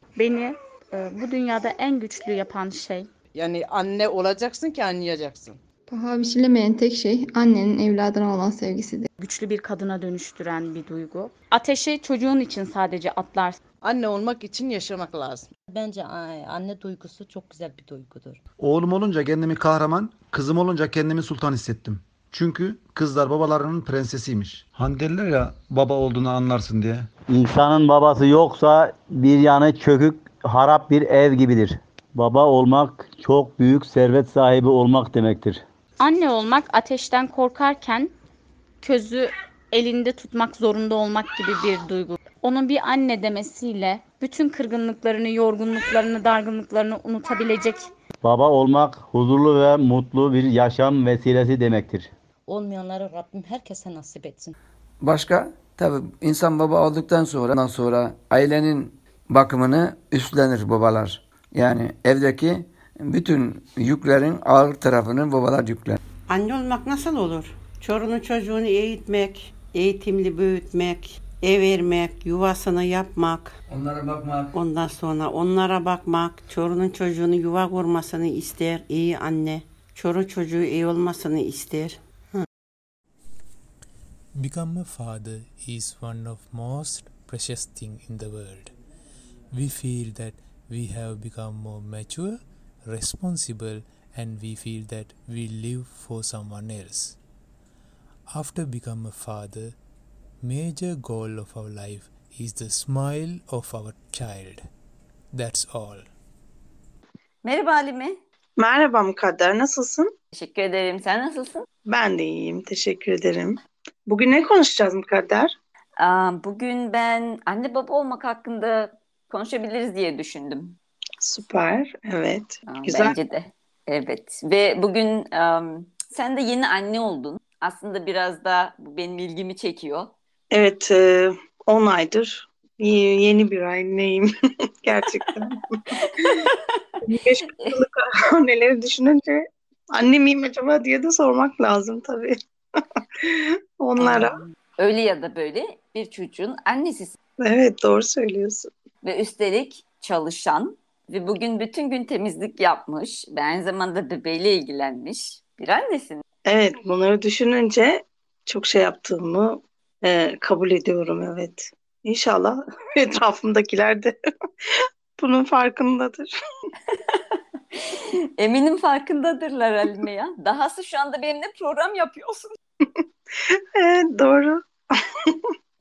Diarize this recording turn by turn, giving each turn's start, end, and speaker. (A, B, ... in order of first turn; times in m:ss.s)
0:00.2-0:03.1 A
0:03.3-0:05.6 B
0:05.9-0:09.1 C
0:09.2-0:13.6 A
0:13.8-0:15.5 B
0:15.7-0:18.4 D
0:18.6-0:27.1 E
0:27.3-0:35.6 F
0:36.0-0:38.1 A
0:38.8-0:47.9 A
0:48.2-0:52.1 F
0:52.5-0:54.6 D
0:55.0-1:06.0 G
1:06.3-1:13.6 H
1:13.7-1:14.5 G
1:14.5-1:22.5 H
1:24.4-1:28.8 I
1:29.5-1:37.2 I
1:38.3-1:39.8 I
1:40.4-1:44.7 I
1:45.3-1:46.1 I
1:47.4-1:48.2 J
1:48.6-1:50.1 K
1:50.3-1:51.7 J
1:51.9-1:55.5 K
1:56.0-2:00.8 J
2:01.2-2:03.2 K
2:02.7-2:10.1 J
2:10.5-2:14.3 K
2:14.8-2:16.4 K
2:16.0-2:17.0 J
2:17.0-2:22.4 K
2:23.2-2:24.4 K
2:24.0-2:27.2 J
2:27.4-2:28.7 K
2:29.0-2:36.2 J
2:36.5-2:44.2 K
2:44.7-2:46.3 K
2:46.9-2:52.6 J
2:52.8-2:55.5 K